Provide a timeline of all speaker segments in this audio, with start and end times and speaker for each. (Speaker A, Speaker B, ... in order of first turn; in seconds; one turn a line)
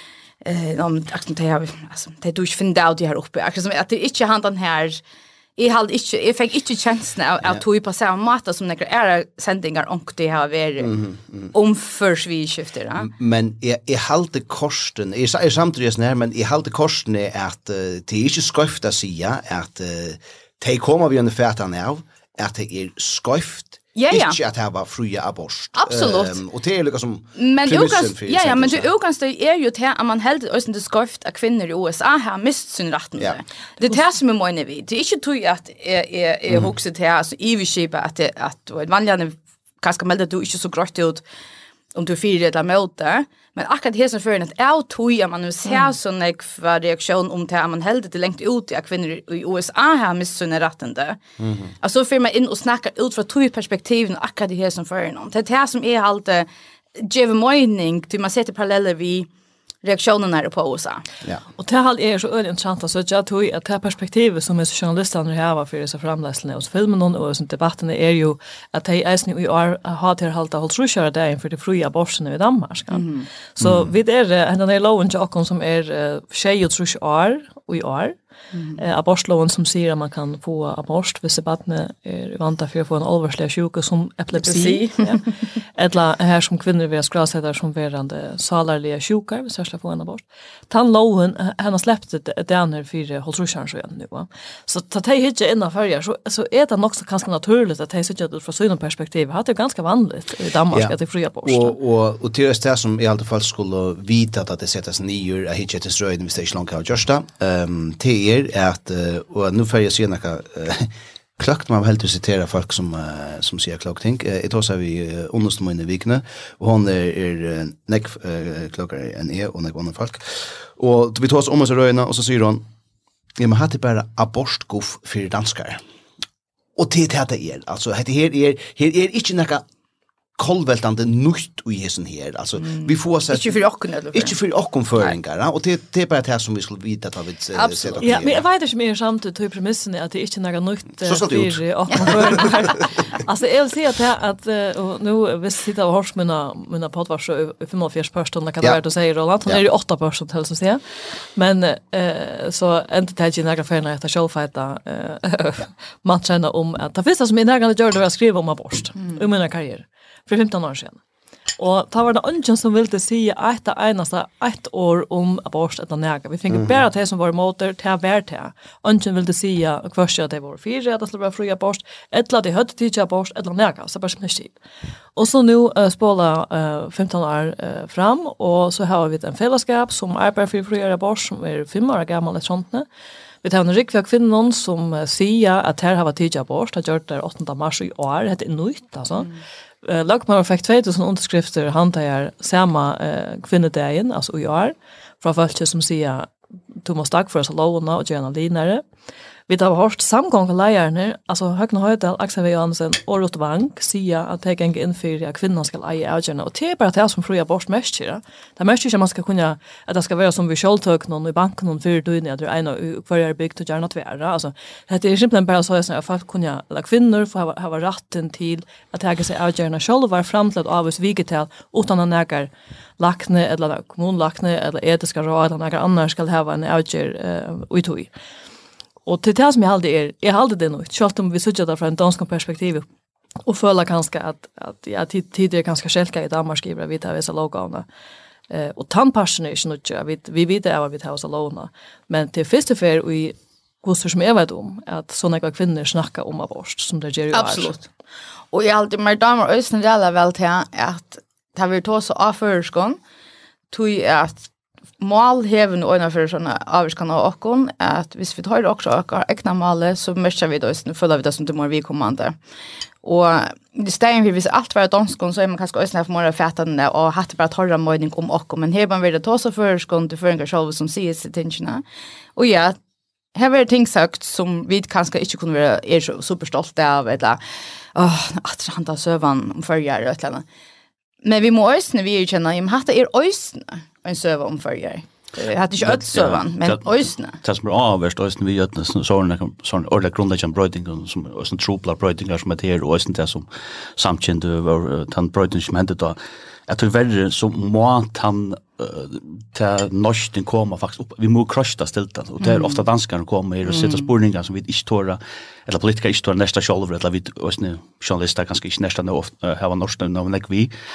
Speaker A: 0.4-5.0
Speaker A: 5.6-11.0
Speaker B: 10.8-11.5
Speaker A: 11.5-13.1
Speaker B: 13.0-28.9
Speaker A: 23.9-24.4
Speaker A: 25.8-26.4
Speaker A: 27.4-41.2
Speaker A: 41.9-51.2
Speaker B: 51.4-51.7
Speaker A: 51.8-59.3
Speaker A: 59.8-61.0
Speaker C: 61.6-78.2
Speaker A: 72.9-73.3
Speaker B: 73.6-73.9
Speaker A: 78.5-78.8
Speaker C: 78.8-85.2
Speaker A: 84.4-85.3
Speaker C: 85.8-101.8
Speaker B: 100.7-122.7
Speaker B: 123.4-125.8
Speaker B: 126.8-129.7
Speaker B: 130.4-133.6
Speaker A: 132.7-134.4
Speaker B: 134.1-138.4
Speaker A: 137.6-138.0
Speaker C: 138.0-150.8
Speaker B: 141.0-142.5
Speaker C: 151.4-161.0
Speaker C: 161.6-174.6
Speaker C: 175.2-182.9
Speaker C: 183.4-189.3
Speaker C: 189.8-198.8
Speaker C: 199.5-228.1
Speaker C: 229.1-232.9
Speaker C: 233.5-237.9
Speaker C: 238.5-247.8
Speaker A: 247.3-247.9
Speaker A: 248.5-253.0
Speaker A: 253.7-254.5
Speaker A: 255.0-262.4
Speaker A: 263.0-271.8
Speaker A: 272.4-272.8
Speaker A: 273.4-277.4
Speaker A: 277.9-280.4
Speaker A: 281.2-287.4
Speaker D: 285.8-310.7
Speaker A: 302.4-302.8
Speaker A: 303.7-304.1